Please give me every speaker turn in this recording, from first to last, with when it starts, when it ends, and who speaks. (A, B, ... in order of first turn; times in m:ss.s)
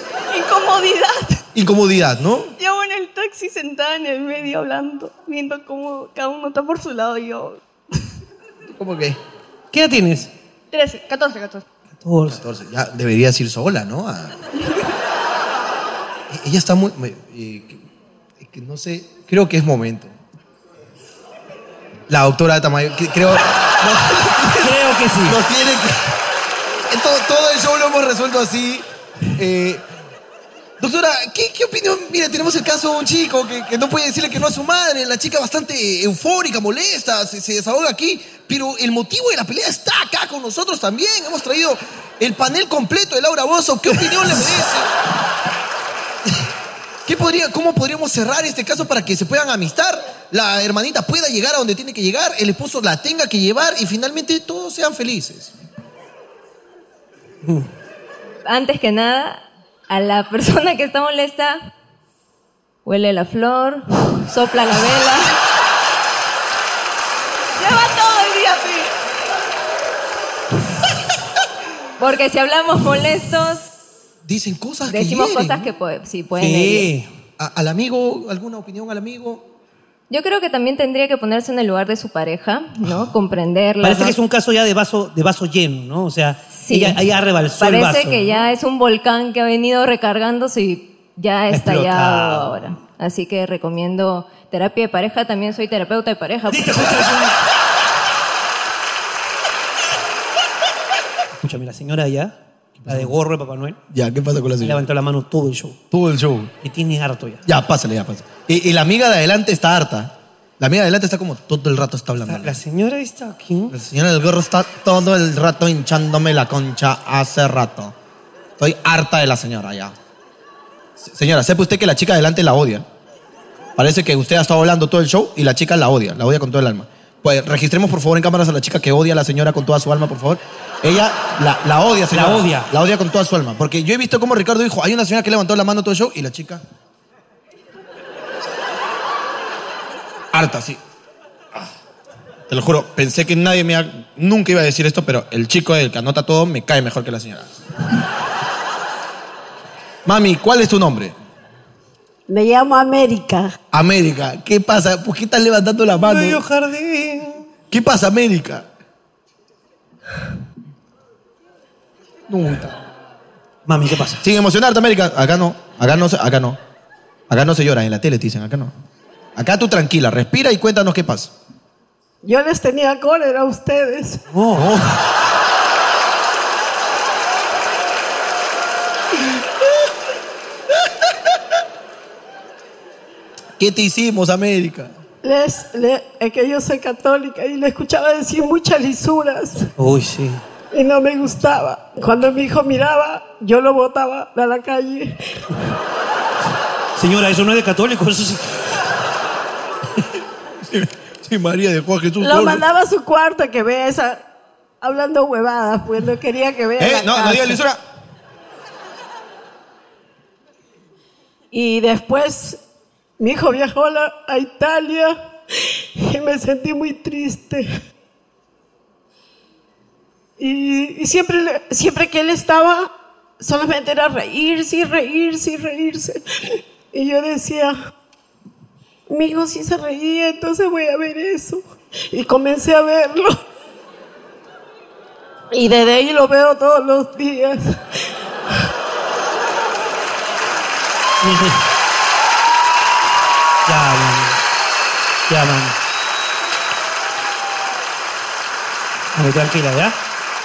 0:00.3-0:01.4 A
0:01.6-0:02.6 B
0:02.6-0:07.6 A
0:08.6-0:09.2 B
0:09.7-0:10.3 C
0:10.7-0:11.6 A
0:12.0-0:12.4 C
0:12.2-0:14.4 B
0:16.3-0:17.8 B
0:18.4-0:20.1 B
0:22.1-0:26.1 B
0:24.6-0:25.4 C
0:26.9-0:29.8 B
0:30.8-0:44.9 B
0:47.0-0:55.6 B
0:58.5-1:01.7 D
1:02.8-1:05.3 D
1:07.6-1:08.9 A
1:12.0-1:13.6 D
1:14.2-1:15.7 B
1:14.9-1:16.9 D
1:16.4-1:17.1 C
1:17.4-1:19.5 B
1:20.1-1:24.2 D
1:23.8-1:28.3 C
1:26.5-1:27.0 D
1:27.6-1:37.0 D
1:31.5-1:32.7 C
1:36.5-1:37.4 C
1:41.4-1:42.3 C
1:42.8-1:43.1 B
1:42.9-1:43.8 C
1:43.9-1:44.9 B
1:44.6-1:45.8 C
1:45.9-1:46.5 B
1:46.6-1:47.4 C
1:47.4-1:52.6 B
1:52.3-1:53.7 C
1:53.7-1:57.9 B
1:58.6-1:59.9 B
2:01.0-2:02.8 B
2:03.8-2:16.6 B
2:12.1-2:12.7 C
2:20.3-2:20.8 B
2:22.5-2:27.6 B
2:30.0-2:31.2 B
2:32.3-2:33.6 E
2:33.7-2:36.4 B
2:35.9-2:37.5 C
2:37.7-2:38.7 B
2:42.3-2:42.8 B
2:43.6-2:44.2 C
2:44.2-2:46.6 B
2:47.3-2:48.7 B
2:49.4-2:51.3 B
2:52.2-2:54.2 E
2:54.3-2:54.7 C
2:54.5-2:55.1 B
2:59.2-2:59.6 B
3:00.7-3:01.4 B
3:03.6-3:04.9 B
3:05.2-3:09.7 E
3:09.8-3:10.4 C
3:10.7-3:15.2 E
3:17.0-3:18.6 C
3:20.6-3:22.6 B
3:22.2-3:24.2 E
3:24.8-3:27.6 E
3:26.8-3:27.8 B
3:31.5-3:32.6 E
3:33.2-3:35.2 E
3:36.0-3:37.7 E
3:40.4-3:46.2 E
3:46.9-3:47.8 E
3:49.1-3:53.4 E
3:55.5-3:57.8 E
4:01.2-4:01.6 C
4:03.6-4:04.4 C
4:05.3-4:05.8 C
4:09.1-4:10.0 C